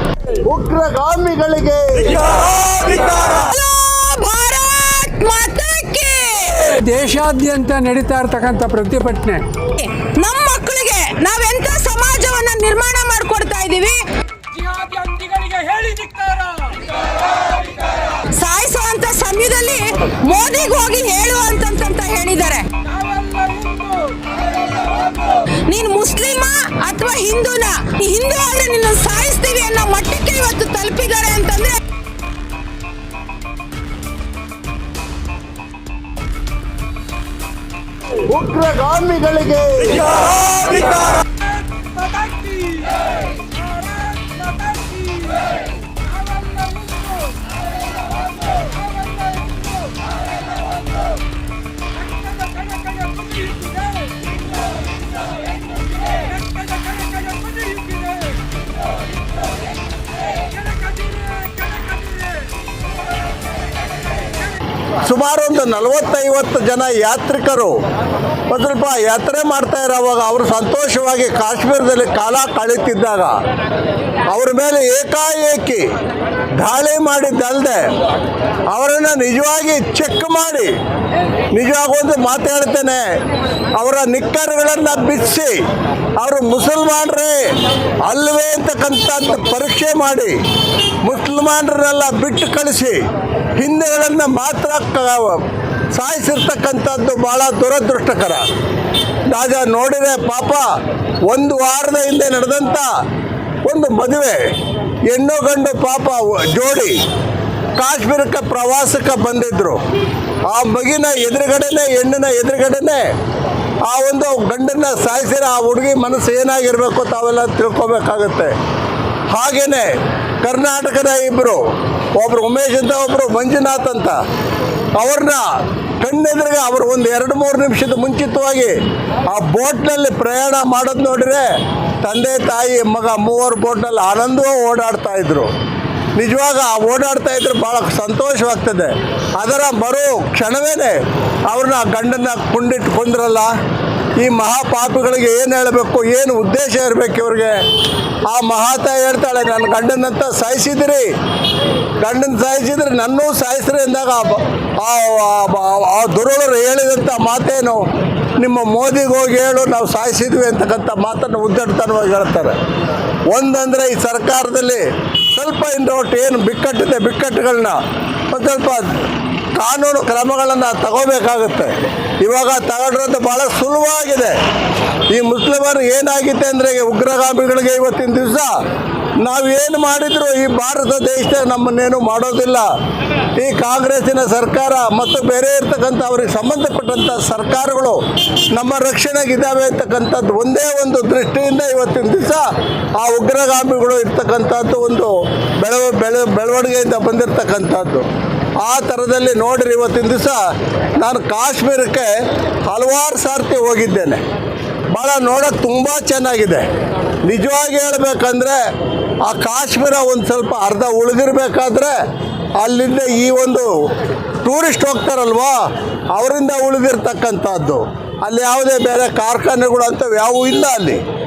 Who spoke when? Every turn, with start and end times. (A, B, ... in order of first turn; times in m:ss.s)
0:00.5-0:03.1 A
0:03.1-0:06.8 B
0:06.8-0:09.4 C
0:09.8-0:14.0 B
0:14.5-0:16.7 D
0:18.3-0:22.9 B
0:23.0-0:24.2 D
0:25.7-0:31.8 B
0:38.3-0:41.1 A
0:42.0-0:42.9 D
0:43.5-0:45.6 D
0:46.1-0:47.4 D
0:48.9-0:49.8 D
0:52.2-0:54.1 D
0:56.4-0:58.2 D
1:00.7-1:02.3 D
1:05.0-1:07.8 A
1:08.5-1:13.3 A
1:14.3-1:15.8 A
1:16.6-1:17.9 A
1:18.7-1:20.7 A
1:21.5-1:23.0 A
1:23.8-1:25.5 A
1:26.2-1:27.4 A
1:28.1-1:30.3 A
1:31.0-1:33.0 A
1:33.6-1:35.4 A
1:35.9-1:38.4 A
1:39.3-1:40.6 A
1:41.3-1:42.9 A
1:43.6-1:44.4 A
1:45.1-1:47.0 A
1:47.8-1:49.8 A
1:50.5-1:53.0 A
1:53.9-1:58.5 A
1:59.3-1:59.9 A
2:00.4-2:01.6 A
2:02.2-2:04.2 A
2:05.0-2:05.4 A
2:06.0-2:08.7 A
2:09.3-2:11.4 A
2:12.0-2:15.5 A
2:16.2-2:20.9 A
2:21.5-2:23.5 A
2:24.2-2:27.5 A
2:28.3-2:31.0 A
2:32.0-2:37.8 A
2:38.4-2:42.5 A
2:43.3-2:47.8 A
2:48.3-2:48.9 A
2:49.6-2:54.3 A
2:55.1-2:58.5 A
2:59.2-3:02.7 A
3:03.4-3:08.0 A
3:08.6-3:12.4 A
3:13.0-3:18.0 A
3:18.6-3:20.4 A
3:21.0-3:22.1 A
3:22.7-3:24.2 A
3:24.9-3:26.7 A
3:27.2-3:28.6 A
3:29.2-3:31.9 A
3:32.6-3:33.7 A
3:34.4-3:35.6 A
3:36.1-3:41.0 A